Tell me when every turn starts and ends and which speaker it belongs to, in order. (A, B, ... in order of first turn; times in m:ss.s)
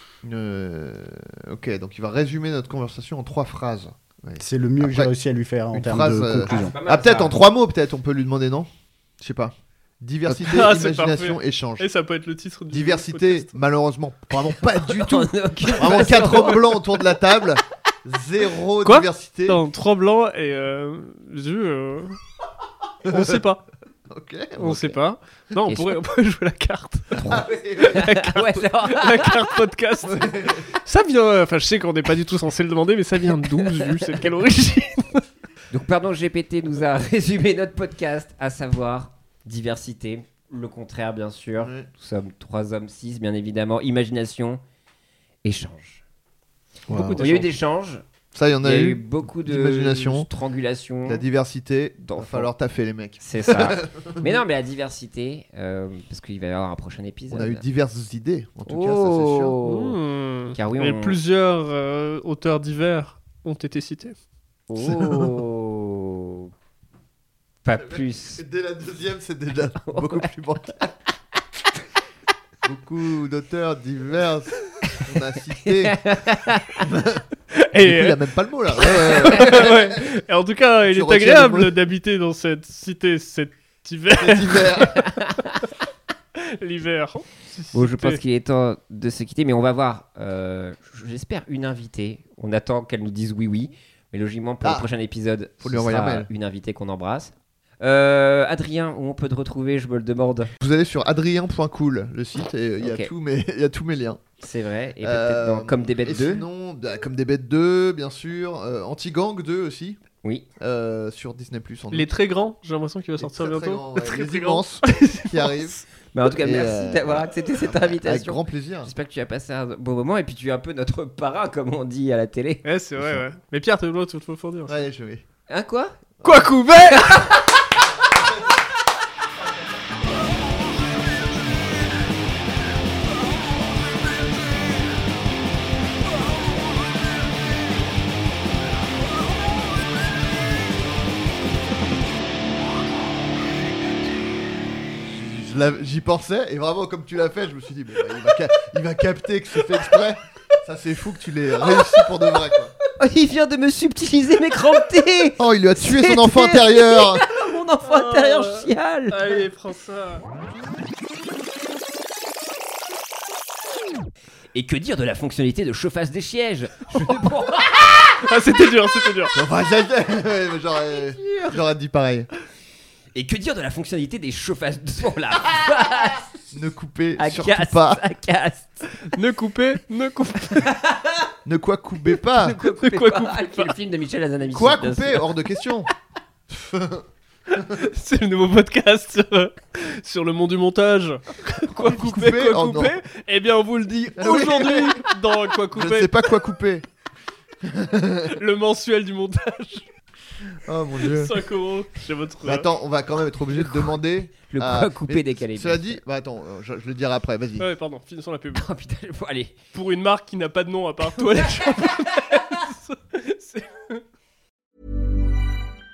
0:00.2-0:05.1 A
0:04.4-0:06.8 B
0:05.7-0:08.7 A
0:06.5-0:07.4 C
0:09.2-0:11.9 A
0:10.3-0:13.5 D
0:12.7-0:19.6 A
0:14.8-0:16.8 C
0:18.8-0:22.2 D
0:23.1-0:23.4 A
0:23.1-0:23.6 D
0:24.1-0:25.0 A
0:24.6-0:27.2 D
0:25.6-0:26.0 C
0:27.2-0:28.0 A
0:27.8-0:35.2 D
0:28.0-0:29.5 C
0:30.0-0:30.7 A
0:35.7-0:44.6 C
0:41.6-0:41.9 A
0:45.4-0:46.0 C
0:46.9-0:47.5 A
0:46.9-0:48.0 C
0:48.3-0:50.3 A
0:48.6-0:51.2 C
0:51.1-0:54.3 A
0:52.0-0:52.5 C
0:53.2-0:57.6 C
0:57.3-0:59.6 A
0:58.7-1:00.0 C
0:59.6-1:04.2 D
1:00.6-1:01.2 C
1:04.7-1:06.5 C
1:04.8-1:05.3 A
1:07.6-1:08.4 C
1:07.8-1:10.9 A
1:09.8-1:10.3 C
1:12.6-1:16.0 A
1:15.6-1:16.8 C
1:16.8-1:17.2 A
1:17.6-1:18.2 D
1:17.8-1:20.0 A
1:18.8-1:25.1 D
1:20.8-1:21.8 A
1:24.1-1:25.0 A
1:25.2-1:25.5 C
1:26.4-1:28.2 D
1:27.7-1:40.5 C
1:34.6-1:34.9 A
1:35.6-1:36.3 A
1:40.6-1:44.2 A
1:42.8-1:43.1 C
1:44.4-1:46.4 C
1:45.0-1:50.0 A
1:50.6-1:52.1 A
1:51.9-1:55.7 D
1:53.2-1:55.8 A
1:56.1-2:02.6 C
1:56.4-1:58.9 A
2:02.6-2:04.8 D
2:04.7-2:05.2 A
2:05.5-2:06.0 C
2:06.2-2:07.3 D
2:06.9-2:07.4 C
2:25.1-2:32.7 A
2:33.0-2:39.4 C
2:35.4-2:37.2 A
2:37.8-2:40.2 D
2:44.5-2:47.8 C
2:47.1-2:49.3 D
2:49.3-2:52.3 A
2:51.0-2:51.6 C
2:53.2-2:56.3 C
2:56.5-2:58.0 A
2:57.2-2:58.9 C
2:59.0-3:00.7 D
3:00.6-3:01.3 C
3:01.5-3:02.6 A
3:02.4-3:05.2 C
3:02.6-3:03.8 D
3:04.5-3:05.9 A
3:06.5-3:07.1 A
3:07.6-3:16.2 D
3:11.8-3:13.0 A
3:14.2-3:15.0 A
3:15.7-3:16.8 A
3:17.6-3:18.4 A
3:18.4-3:19.9 D
3:20.6-3:21.3 A
3:21.1-3:22.7 D
3:22.4-3:27.7 A
3:24.5-3:26.0 C
3:27.6-3:28.7 D
3:28.5-3:29.6 C
3:29.7-3:34.0 D
3:31.4-3:31.9 C